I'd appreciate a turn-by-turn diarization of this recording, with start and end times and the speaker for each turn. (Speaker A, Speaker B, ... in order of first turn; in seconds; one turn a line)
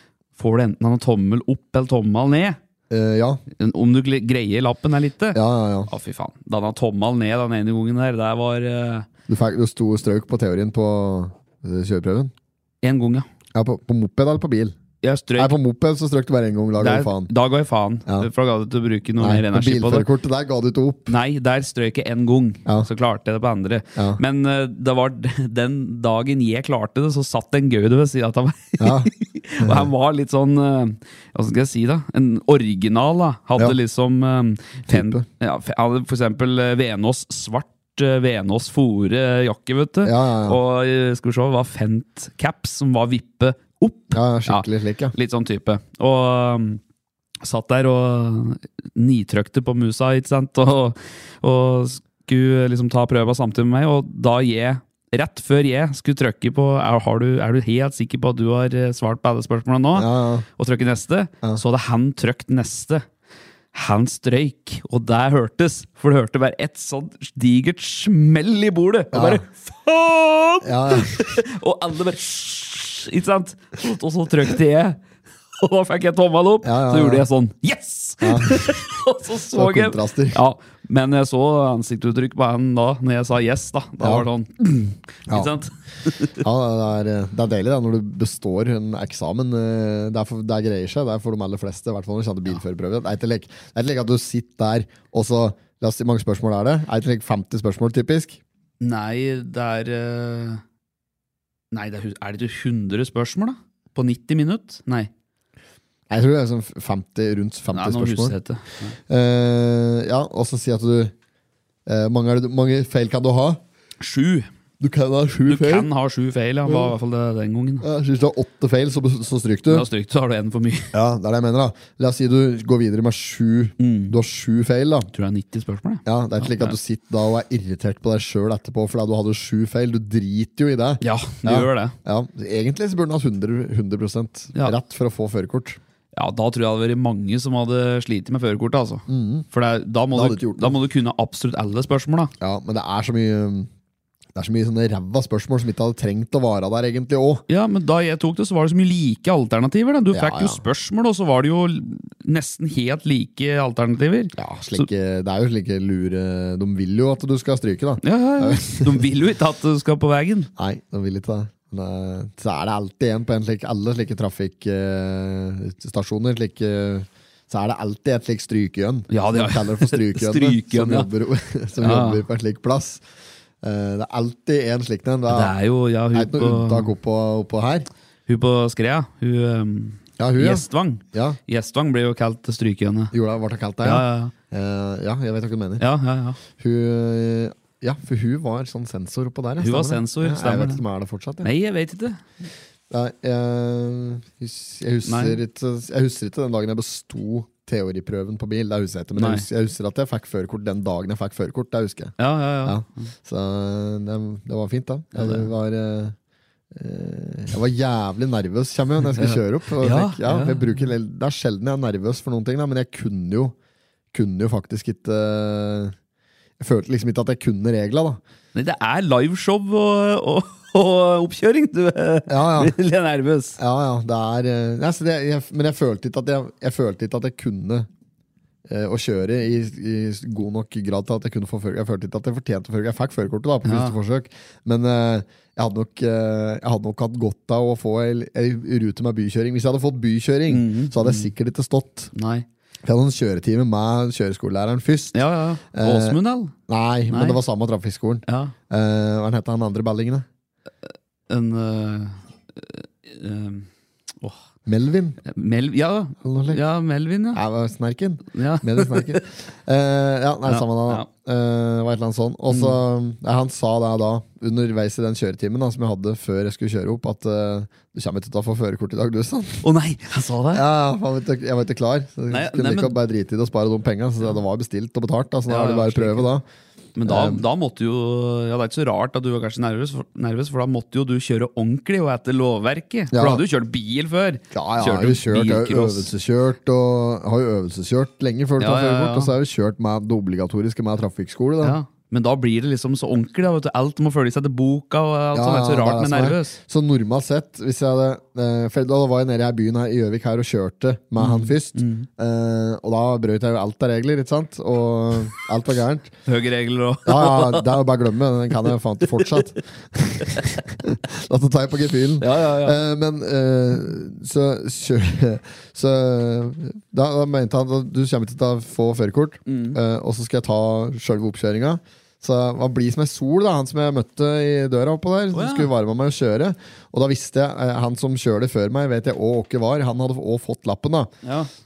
Speaker A: 0.3-2.6
Speaker B: 2.9-3.4
Speaker A: 3.5-9.1
Speaker B: 5.3-5.9
Speaker B: 9.3-12.3
Speaker A: 12.8-13.3
Speaker B: 13.5-14.7
Speaker A: 15.0-15.6
Speaker B: 15.4-17.3
Speaker A: 16.8-20.1
Speaker B: 19.2-21.1
Speaker A: 21.1-46.8
Speaker B: 23.9-24.2
Speaker B: 28.8-29.9
Speaker B: 34.9-35.3
Speaker B: 40.0-40.6
Speaker B: 44.1-45.1
Speaker A: 47.4-63.0
Speaker B: 59.9-60.5
Speaker A: 63.7-75.0
Speaker B: 69.1-69.4
Speaker B: 70.6-71.4
Speaker A: 75.6-86.4
Speaker B: 76.6-77.2
Speaker B: 78.2-78.8
Speaker B: 79.5-80.4
Speaker B: 84.0-84.2
Speaker B: 86.3-98.4
Speaker A: 98.8-100.6
Speaker A: 101.7-105.1
Speaker B: 106.1-108.3
Speaker A: 107.7-109.0
Speaker B: 109.1-111.1
Speaker B: 111.8-113.6
Speaker A: 114.0-114.5
Speaker B: 114.8-115.9
Speaker A: 115.5-117.8
Speaker B: 116.7-116.9
Speaker B: 117.8-119.8
Speaker A: 119.7-120.9
Speaker B: 120.9-125.1
Speaker A: 123.8-124.1
Speaker A: 125.1-126.8
Speaker B: 126.0-135.8
Speaker A: 131.0-131.9
Speaker A: 136.1-142.3
Speaker B: 139.1-139.4
Speaker B: 140.1-140.8
Speaker B: 142.4-143.7
Speaker B: 144.3-147.4
Speaker A: 147.5-154.9
Speaker B: 150.1-150.6
Speaker B: 154.3-159.0
Speaker A: 158.0-160.5
Speaker B: 160.6-173.0
Speaker A: 169.1-171.1
Speaker A: 171.8-172.2
Speaker B: 173.6-175.5
Speaker A: 175.3-176.9
Speaker B: 176.1-177.9
Speaker A: 178.3-183.1
Speaker B: 180.2-181.4
Speaker B: 183.1-185.8
Speaker A: 183.8-184.3
Speaker A: 185.8-186.4
Speaker B: 186.6-191.5
Speaker A: 189.6-190.8
Speaker A: 191.4-192.2
Speaker B: 192.9-206.2
Speaker A: 195.0-195.4
Speaker A: 199.2-199.4
Speaker A: 202.2-203.1
Speaker A: 205.1-205.5
Speaker B: 206.7-213.5
Speaker A: 209.1-210.8
Speaker B: 214.1-215.9
Speaker B: 216.6-218.2
Speaker A: 218.5-223.6
Speaker B: 222.3-222.7
Speaker B: 223.6-227.9
Speaker B: 228.7-242.1
Speaker A: 233.6-234.0
Speaker A: 240.5-241.3
Speaker A: 242.1-242.4
Speaker B: 242.8-250.2
Speaker A: 245.1-246.5
Speaker A: 247.1-247.4
Speaker A: 248.2-248.5
Speaker A: 251.3-253.7
Speaker B: 254.7-255.2
Speaker A: 255.2-257.4
Speaker B: 256.2-256.6
Speaker B: 257.3-269.6
Speaker A: 258.3-259.2
Speaker A: 260.4-261.1
Speaker A: 262.5-262.8
Speaker A: 269.6-270.6
Speaker B: 270.5-276.4
Speaker A: 272.3-273.0
Speaker A: 275.5-276.3
Speaker A: 276.9-286.1
Speaker B: 277.1-277.4
Speaker B: 283.1-283.4
Speaker B: 284.5-291.8
Speaker A: 288.6-289.3
Speaker A: 291.6-296.6
Speaker B: 295.3-306.1
Speaker A: 301.2-302.1
Speaker A: 306.2-307.8
Speaker B: 307.0-331.1
Speaker A: 312.2-312.8
Speaker A: 319.5-319.8
Speaker A: 325.3-325.7
Speaker A: 331.2-331.5